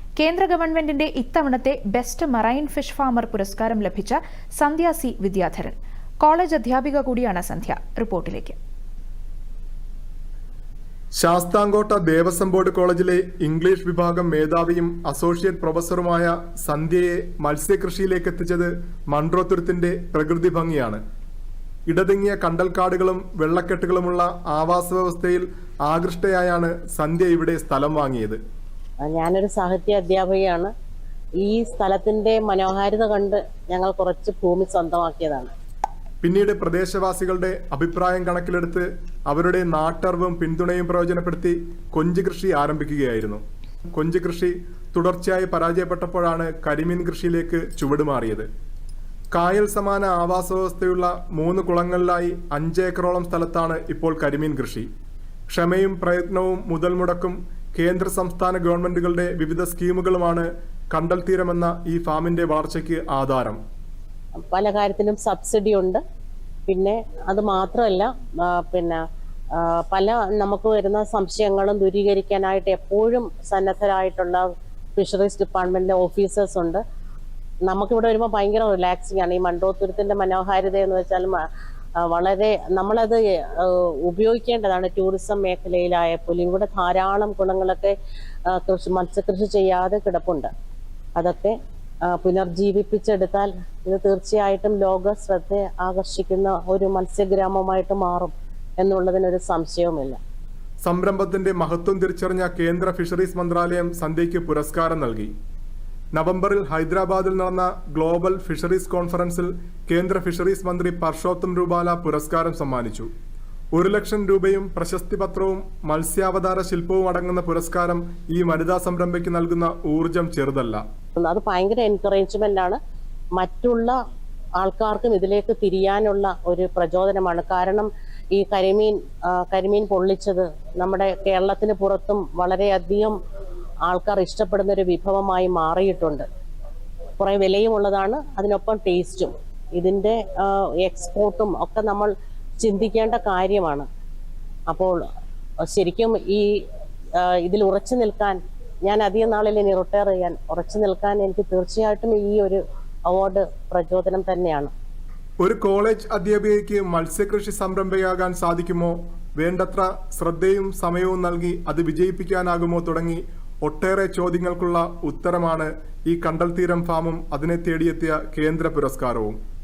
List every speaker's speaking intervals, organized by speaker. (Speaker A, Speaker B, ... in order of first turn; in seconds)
Speaker A: 0.2-8.6
Speaker B: 11.2-21.0, 21.9-28.4, 36.2-43.4, 44.0-48.5, 49.4-54.9, 55.5-63.6, 100.8-105.3, 106.2-113.1, 113.8-120.8, 155.4-169.4
Speaker C: 29.0-30.7, 31.4-35.5, 64.5-66.0, 66.7-69.0, 69.5-74.4, 75.0-76.8, 77.7-81.4, 82.0-87.9, 88.5-90.5, 91.2-91.5, 92.1-100.2, 121.2-122.8, 123.4-124.0, 124.6-133.2, 133.9-136.2, 137.2-143.9, 144.7-145.0, 145.6-146.5, 147.2-154.7